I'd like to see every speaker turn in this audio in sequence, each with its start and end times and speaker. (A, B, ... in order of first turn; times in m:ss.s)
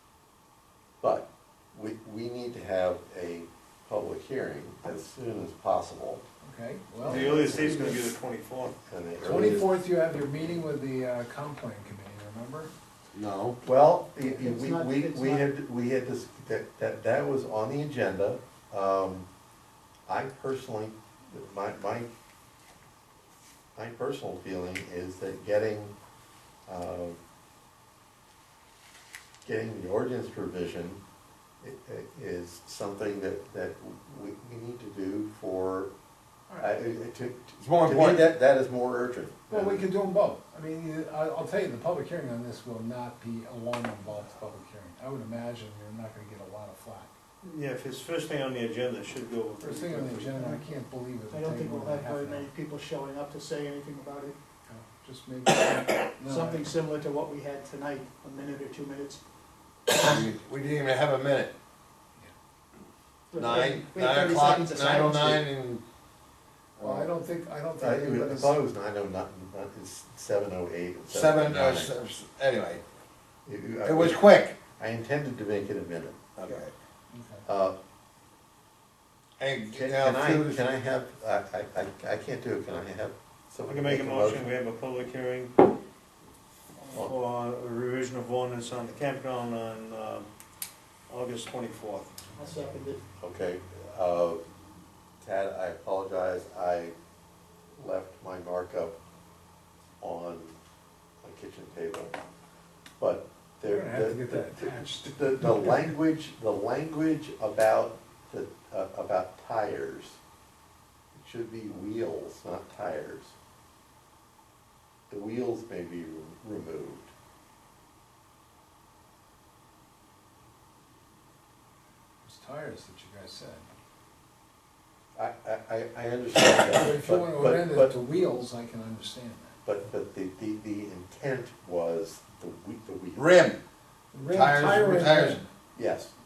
0:01.0-0:06.2 A
0:06.4-0:08.1 B
0:07.0-0:08.8 C
0:07.1-0:07.9 A
0:08.9-0:09.9 A
0:09.2-0:12.7 B
0:13.1-0:13.6 D
0:13.6-0:19.3 A
0:14.3-0:15.4 E
0:20.1-0:22.1 A
0:23.8-0:26.0 A
0:26.7-0:27.2 A
0:29.4-0:31.0 A
0:31.6-0:35.9 A
0:36.6-0:39.9 A
0:37.6-0:38.3 D
0:39.5-0:47.1 B
0:47.4-0:50.4 C
0:49.6-0:52.5 B
0:50.4-0:50.7 E
0:51.3-0:54.4 E
0:54.7-0:56.7 B
0:56.2-0:59.2 E
0:59.9-1:01.5 D
1:03.3-1:05.4 E
1:03.3-1:05.8 D
1:06.8-1:07.1 D
1:06.8-1:08.6 B
1:07.8-1:11.9 A
1:11.1-1:12.8 D
1:13.5-1:16.3 A
1:13.8-1:14.6 D
1:16.4-1:16.7 D
1:17.1-1:17.4 B
1:17.5-1:17.8 A
1:19.4-1:20.7 D
1:19.7-1:24.5 A
1:23.7-1:25.7 C
1:27.0-1:30.3 C
1:31.1-1:32.1 C
1:32.4-1:33.0 E
1:33.2-1:34.4 A
1:35.2-1:37.0 A
1:37.8-1:39.0 A
1:40.0-1:40.6 A
1:41.2-1:42.2 A
1:43.0-1:50.2 A
1:43.6-1:45.9 B
1:51.1-1:53.4 A
1:55.1-1:57.1 A
2:02.2-2:03.7 B
2:05.2-2:08.0 A
2:06.6-2:09.6 B
2:09.6-2:13.4 A
2:13.2-2:13.6 D
2:14.1-2:15.5 B
2:14.3-2:15.4 D
2:15.8-2:16.1 A